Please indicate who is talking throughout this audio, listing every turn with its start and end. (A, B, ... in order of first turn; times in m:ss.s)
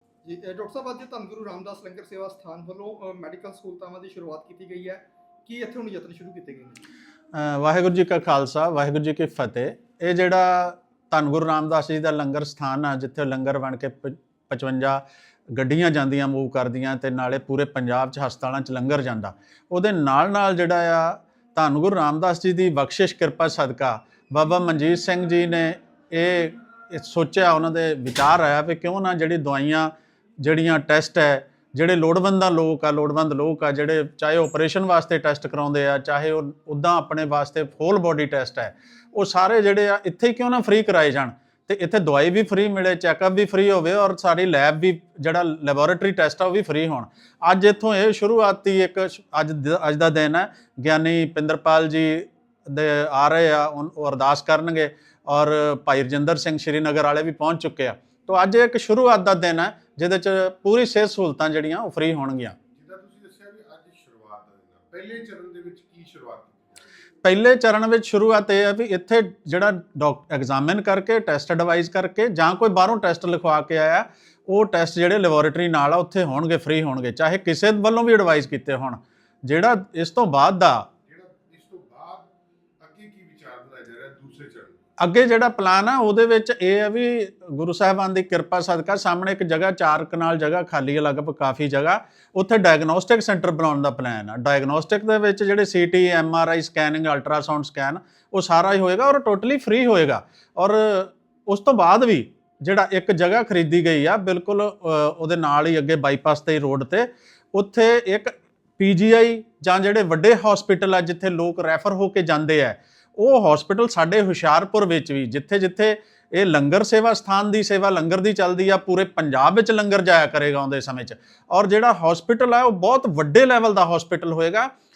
0:00.2-0:06.8 A
0:07.3-1:02.6 B
1:02.7-1:06.9 C
1:07.2-1:20.9 B
1:21.0-1:24.8 C
1:25.0-2:04.7 B